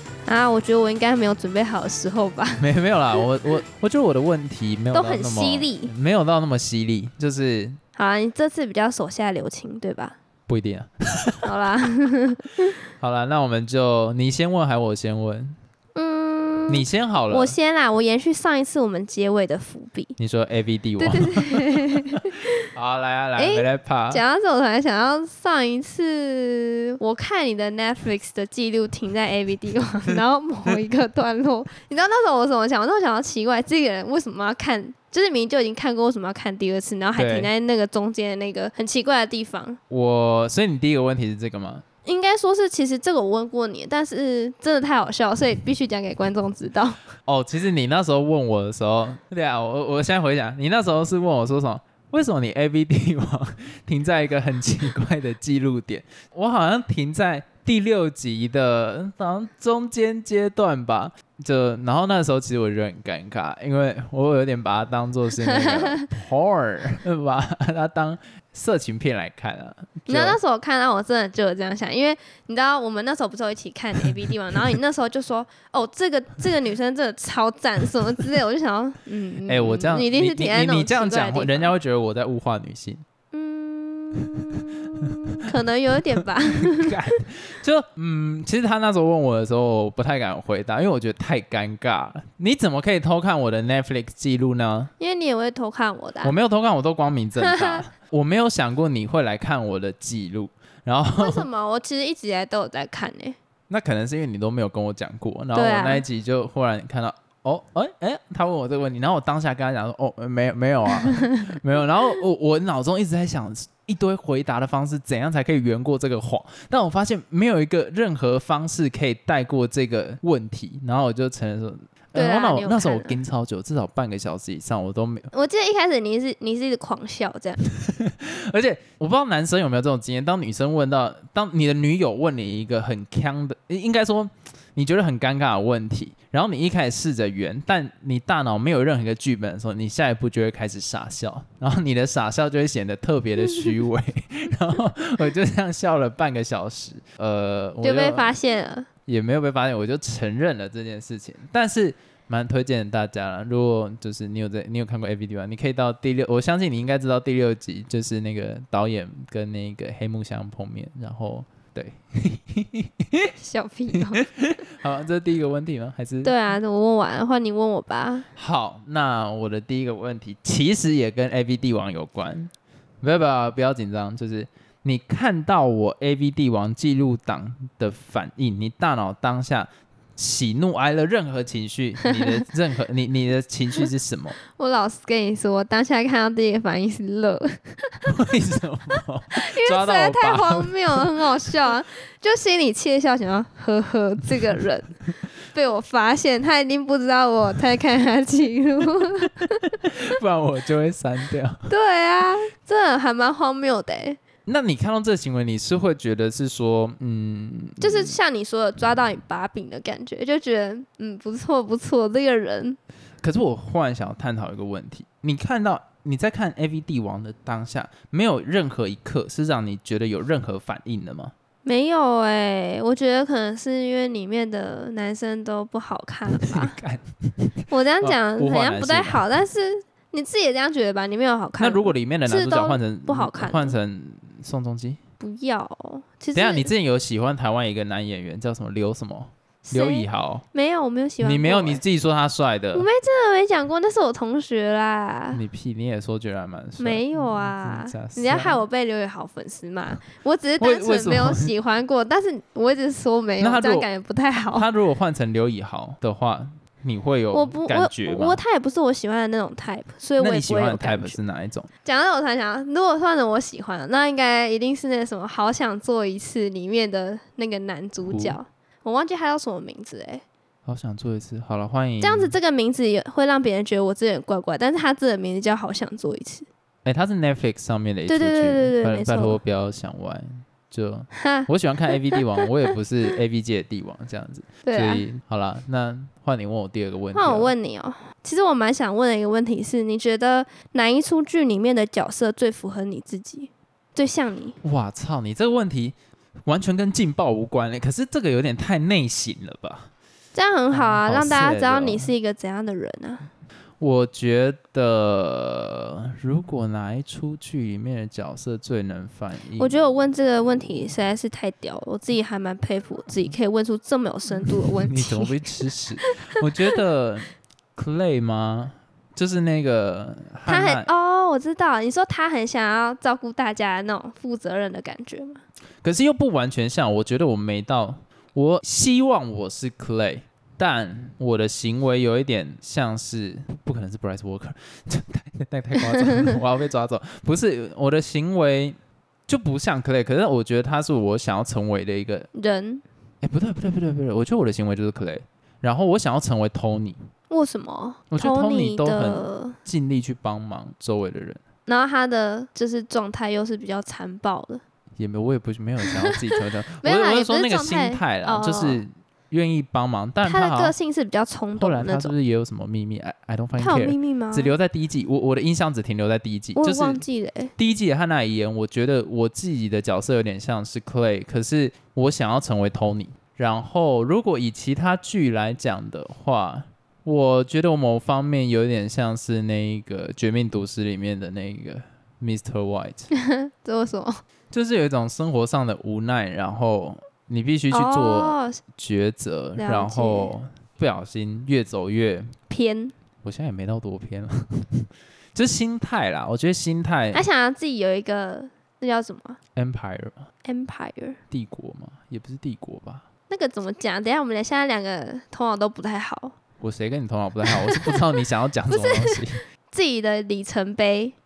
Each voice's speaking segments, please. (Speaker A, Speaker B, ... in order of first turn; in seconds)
Speaker A: 0.3-2.7, 4.9-5.9, 8.0-10.2, 11.4-12.8, 16.0-20.1, 21.0-22.5, 23.4-39.8, 42.0-47.0, 65.4-66.1, 70.1-81.7, 83.3-86.9, 95.0-96.3, 97.4-97.8, 101.2-103.4, 105.5-106.0, 122.2-123.2, 125.3-127.6, 147.8-148.9, 163.4-164.3, 166.2-168.3, 182.1-182.4, 184.6-188.1, 188.9-194.9, 195.5-199.8, 201.7-204.2, 207.8-212.8, 221.7-226.8, 227.7-233.8, 235.2-236.7, 239.7-241.8, 242.7-245.4, 246.8-254.7, 257.3-261.2, 261.9-270.2, 272.0-276.5, 278.1-279.4, 281.1-282.2, 284.6-285.1, 287.1-294.6, 300.3-303.3, 309.6-315.4, 316.0-316.4, 320.5-325.4, 336.0-336.3, 342.4-342.8, 347.3-349.6, 351.7-354.6, 355.9-356.2, 356.8-358.8, 360.2-362.1, 363.6-364.5, 366.6-367.5, 383.1-384.2, 387.7-388.6, 389.6-390.3, 392.5-392.9, 397.1-399.4, 400.4-401.2, 403.3-406.4, 407.5-408.0, 408.7-411.1
Speaker B: 2.6-7.8, 10.5-11.5, 13.0-15.6, 16.7-17.6, 20.2-22.0, 22.7-24.2, 37.2-37.5, 39.9-41.9, 47.3-70.4, 79.5-83.0, 84.3-85.1, 86.6-94.9, 96.2-101.5, 103.7-125.3, 127.7-148.4, 149.1-163.3, 163.9-166.3, 168.4-184.4, 188.1-191.3, 199.8-201.7, 204.5-208.2, 213.2-221.3, 226.3-229.2, 231.6-235.0, 236.3-240.4, 241.2-242.9, 245.3-248.6, 250.6-251.5, 253.4-253.9, 254.5-258.4, 260.2-261.7, 268.1-268.4, 270.7-272.3, 276.9-287.5, 294.6-299.9, 300.7-302.1, 303.8-309.8, 314.5-320.9, 325.8-338.8, 339.3-342.3, 343.2-347.0, 348.1-351.4, 355.0-360.7, 361.6-367.0, 367.6-383.1, 384.5-392.3, 393.2-397.2, 399.6-400.2, 401.3-403.1, 406.6-409.4